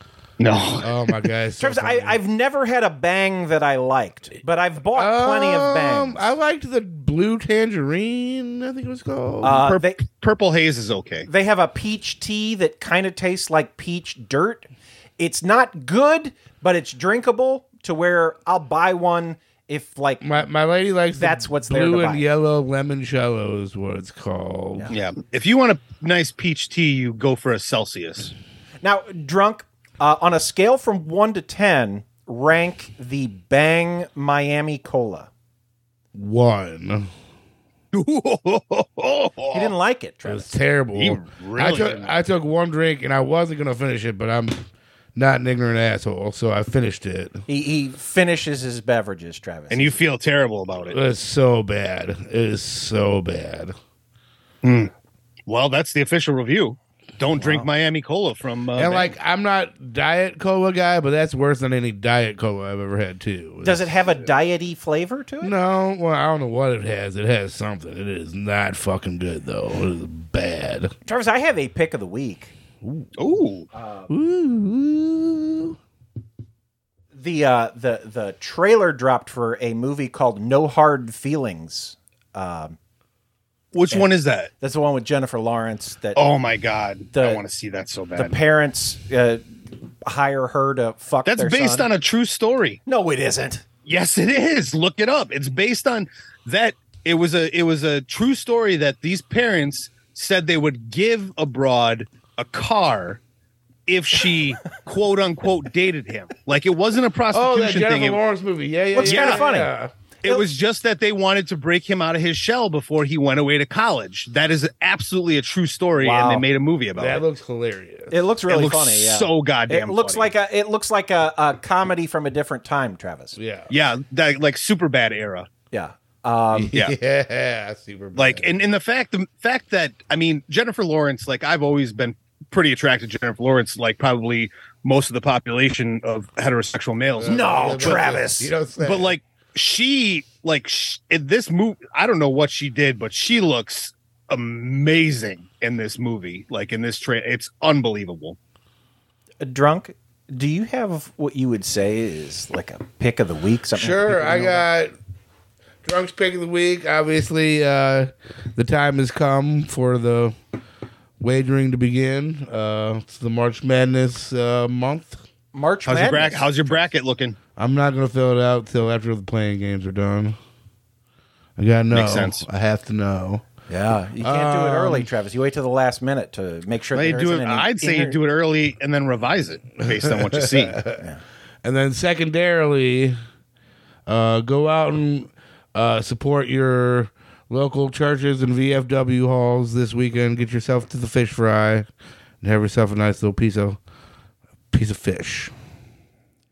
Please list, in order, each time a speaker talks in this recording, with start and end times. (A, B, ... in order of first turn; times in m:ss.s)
0:00.4-0:01.2 A
0:00.8-0:02.2 B
0:01.6-0:06.3 C
0:05.0-0:09.6 B
0:09.4-0:10.0 C
0:09.5-0:11.3 A
0:11.3-0:20.3 C
0:20.2-0:24.9 B
0:21.2-0:22.2 C
0:24.9-0:28.3 A
0:28.8-0:35.3 C
0:36.2-0:37.1 B
0:37.9-0:39.7 A
0:39.5-0:40.5 C
0:40.3-0:44.6 B
0:40.9-0:42.2 A
0:45.2-0:47.4 B
0:47.5-0:50.0 C
0:49.7-0:51.0 A
0:50.9-0:53.8 B
0:54.6-0:54.9 A
0:55.5-0:59.1 A
0:58.8-1:04.3 B
1:03.6-1:05.5 C
1:05.4-1:10.9 B
1:11.1-1:12.5 C
1:12.8-1:13.1 B
1:13.2-1:13.7 A
1:13.7-1:14.1 C
1:14.1-1:15.8 B
1:17.1-1:22.8 C
1:23.7-1:24.5 A
1:23.9-1:26.3 C
1:26.2-1:28.4 A
1:27.1-1:27.4 C
1:28.2-1:31.9 C
1:31.2-1:32.8 A
1:32.9-1:33.6 C
1:33.9-1:43.2 A
1:43.9-1:48.2 A
1:47.3-1:49.9 B
1:48.9-1:49.7 C
1:49.0-1:49.6 A
1:50.2-1:57.2 A
1:56.0-1:56.5 C
1:57.0-1:58.1 B
1:58.1-2:03.4 C
1:58.5-2:00.3 A
2:03.4-2:03.7 B
2:03.7-2:05.5 A
2:05.7-2:06.7 C
2:06.5-2:08.5 B
2:08.1-2:18.0 A
2:17.2-2:19.2 B
2:17.2-2:18.5 C
2:18.8-2:28.4 A
2:29.4-2:34.6 C
2:33.7-2:34.9 B
2:35.8-2:40.4 B
2:41.2-2:45.2 B
2:45.5-2:46.8 C
2:45.8-2:47.4 A
2:47.6-2:50.4 B
2:51.6-2:53.5 B
2:51.9-2:52.5 A
2:53.7-2:58.2 C
2:54.2-2:55.1 B
2:56.9-3:00.8 A
2:59.9-3:01.0 B
3:01.6-3:03.2 B
3:04.1-3:11.9 B
3:12.4-3:13.8 B
3:14.7-3:15.5 B